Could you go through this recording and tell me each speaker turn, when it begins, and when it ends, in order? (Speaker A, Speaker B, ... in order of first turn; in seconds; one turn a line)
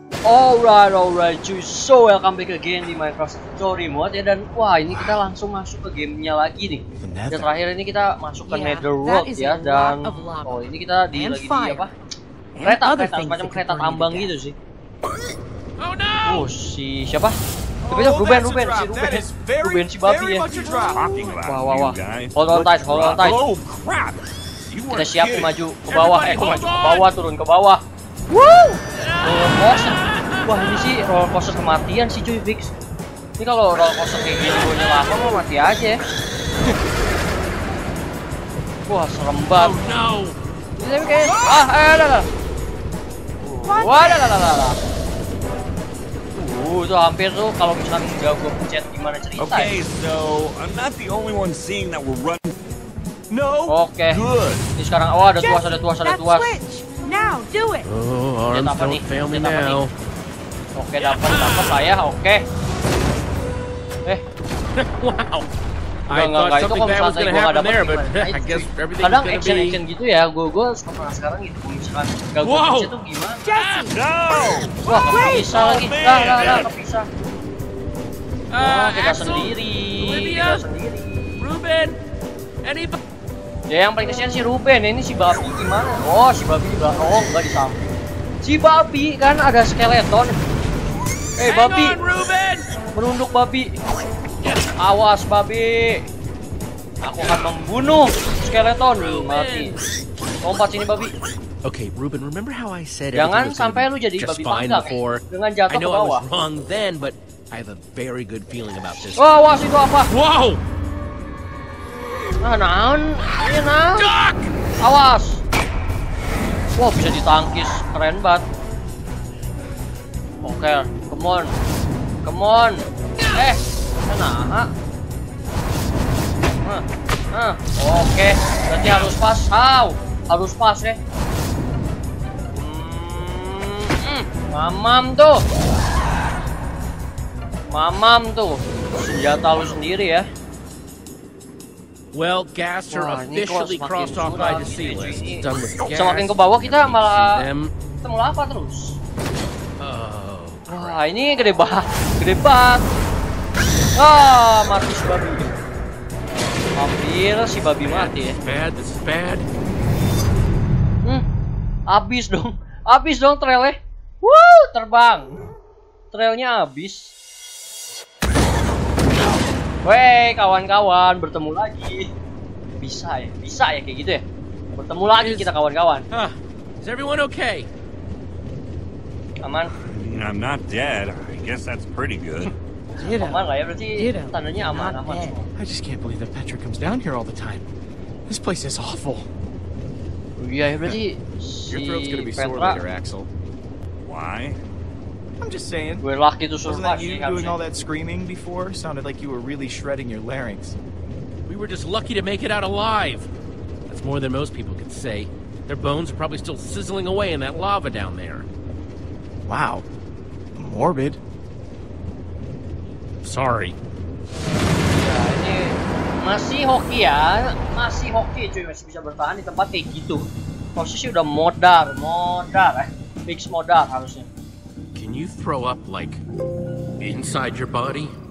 Speaker A: 0.2-11.9
Speaker B: 4.9-5.2
Speaker B: 7.0-7.5
Speaker C: 8.4-11.8
Speaker C: 12.5-14.3
Speaker A: 12.6-14.6
Speaker D: 15.8-16.5
Speaker A: 16.2-17.3
Speaker B: 17.8-21.1
Speaker A: 17.9-20.5
Speaker E: 20.8-25.5
Speaker A: 21.4-23.4
Speaker A: 24.9-32.7
Speaker D: 25.9-27.1
Speaker D: 28.9-30.3
Speaker A: 33.4-36.0
Speaker A: 38.9-39.8
Speaker D: 39.6-40.4
Speaker A: 40.8-42.3
Speaker A: 43.4-44.8
Speaker C: 43.6-44.3
Speaker A: 46.3-49.7
Speaker E: 49.4-52.5
Speaker B: 53.3-54.6
Speaker A: 53.7-54.2
Speaker E: 54.1-54.4
Speaker A: 54.8-56.6
Speaker C: 55.4-57.9
Speaker D: 57.8-59.9
Speaker A: 58.5-59.8
Speaker A: 60.7-62.4
Speaker D: 61.0-61.8
Speaker D: 64.7-65.5
Speaker D: 66.1-69.8
Speaker A: 66.1-73.4
Speaker D: 72.4-72.9
Speaker C: 73.5-74.0
Speaker E: 73.9-76.7
Speaker A: 74.8-77.1
Speaker C: 75.0-75.5
Speaker D: 78.5-79.5
Speaker A: 78.6-81.5
Speaker D: 80.0-80.6
Speaker D: 81.4-82.0
Speaker D: 82.6-83.0
Speaker A: 83.7-87.8
Speaker A: 88.4-90.4
Speaker A: 91.4-92.0
Speaker D: 91.4-92.7
Speaker A: 92.9-93.7
Speaker A: 94.8-96.0
Speaker A: 97.0-99.8
Speaker D: 99.0-99.8
Speaker A: 100.4-101.2
Speaker D: 101.6-109.2
Speaker A: 103.1-106.2
Speaker A: 109.1-110.1
Speaker D: 110.1-110.6
Speaker A: 112.4-114.1
Speaker D: 114.0-114.5
Speaker A: 114.8-115.4
Speaker A: 116.8-118.4
Speaker A: 120.4-121.5
Speaker A: 122.2-124.7
Speaker A: 126.6-131.0
Speaker A: 132.5-135.4
Speaker A: 137.7-140.3
Speaker D: 142.1-147.7
Speaker A: 142.9-147.4
Speaker A: 148.0-149.0
Speaker D: 149.8-151.0
Speaker A: 150.7-152.9
Speaker A: 153.9-155.5
Speaker A: 156.8-158.4
Speaker D: 157.8-159.5
Speaker A: 161.9-165.4
Speaker A: 166.1-167.1
Speaker A: 169.8-172.1
Speaker A: 172.8-176.1
Speaker D: 175.2-175.5
Speaker D: 176.1-177.7
Speaker A: 179.4-179.7
Speaker E: 179.7-182.5
Speaker C: 183.0-185.4
Speaker A: 183.0-185.4
Speaker B: 185.5-187.7
Speaker B: 188.3-189.3
Speaker A: 190.4-192.8
Speaker B: 191.7-193.3
Speaker E: 194.0-194.6
Speaker B: 195.4-196.0
Speaker A: 196.0-197.6
Speaker B: 196.7-200.8
Speaker D: 201.5-203.3
Speaker D: 203.9-208.5
Speaker B: 209.4-209.8
Speaker B: 210.6-211.2
Speaker D: 213.2-213.8
Speaker A: 214.9-220.2
Speaker A: 220.8-224.3
Speaker D: 224.9-226.2
Speaker D: 227.0-228.1